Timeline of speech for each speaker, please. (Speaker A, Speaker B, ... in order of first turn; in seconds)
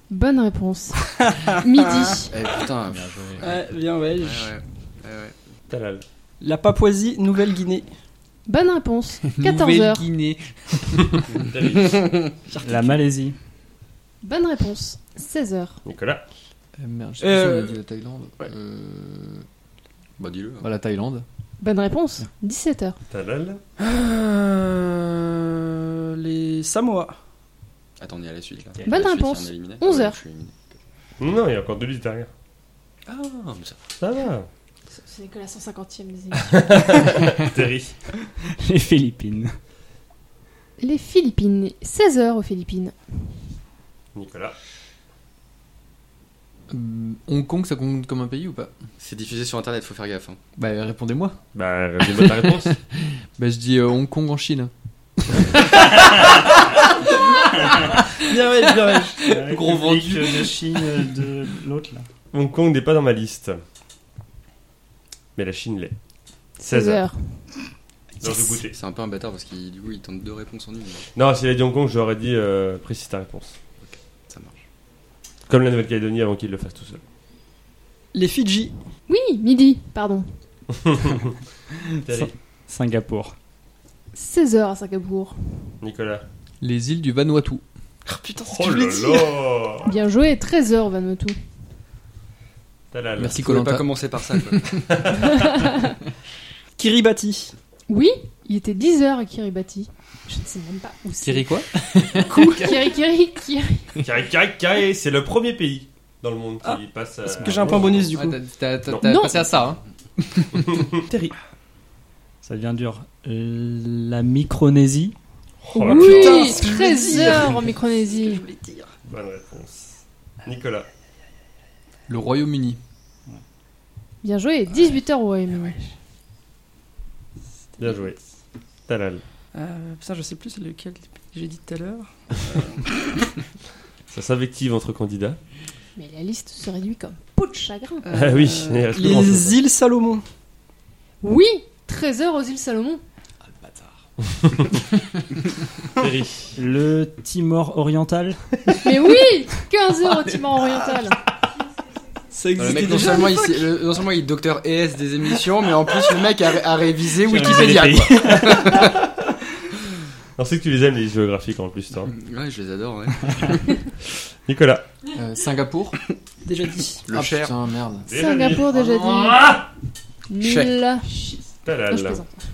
Speaker A: 0.1-2.3, 8.5-10.1, 14.2-15.8, 21.6-23.0, 28.8-30.2, 34.9-37.1, 40.8-43.0, 66.6-67.5, 79.1-80.3, 84.1-85.7, 89.8-91.4, 95.3-95.8, 97.9-101.6, 102.4-103.9, 109.0-109.5, 115.7-118.5, 124.2-125.8, 136.0-138.1, 141.2-143.0, 148.8-151.2, 168.1-169.6, 170.3-171.1, 171.9-172.4
Speaker B: 1.9-2.2, 3.4-4.5, 6.4-7.9, 12.5-13.0, 17.2-17.8, 23.8-27.1, 58.3-59.4, 78.1-78.7, 88.0-89.4, 96.8-97.5, 102.2-102.8, 107.4-108.4, 115.9-118.9, 129.5-133.3, 138.1-140.2, 152.3-153.7, 166.4-167.1
Speaker C: 2.3-3.6, 4.2-5.3, 11.7-12.3, 20.2-20.7, 28.0-30.6, 33.1-33.8, 49.0-50.4, 68.7-71.1, 73.8-74.6, 93.3-95.0, 152.6-159.0, 162.1-163.8, 167.1-167.5, 170.4-170.7
Speaker D: 2.9-3.4, 12.6-13.4, 38.6-39.6, 59.2-62.1, 82.1-83.3, 107.2-108.0, 112.4-115.2, 146.6-148.4, 157.2-158.9
Speaker E: 5.7-6.0, 11.3-12.1, 15.8-16.2, 23.1-23.6, 31.2-32.3, 34.0-34.5, 36.4-38.0, 44.1-44.5, 51.5-52.7, 62.3-63.6, 65.4-65.9, 66.7-67.0, 68.2-68.7, 71.2-73.6, 75.5-77.0, 80.7-81.4, 82.0-82.3, 85.8-86.2, 88.5-89.9, 92.9-93.4, 94.9-95.5, 104.0-108.1, 108.9-109.4, 110.6-111.3, 115.6-116.5, 119.1-119.9, 120.4-120.9, 127.8-128.2, 128.9-129.2, 134.1-135.4, 138.1-139.6, 144.4-144.7, 146.0-146.6, 158.8-159.3, 160.4-162.1, 164.5-164.8, 168.1-169.6, 171.7-172.2
Speaker F: 9.3-11.2, 16.8-19.5, 20.6-21.2, 46.7-48.7, 50.6-51.4, 52.1-56.2, 59.4-60.5, 86.6-87.6, 93.2-94.8, 101.2-102.7, 108.1-109.8, 122.1-122.8, 165.1-166.0, 167.1-168.1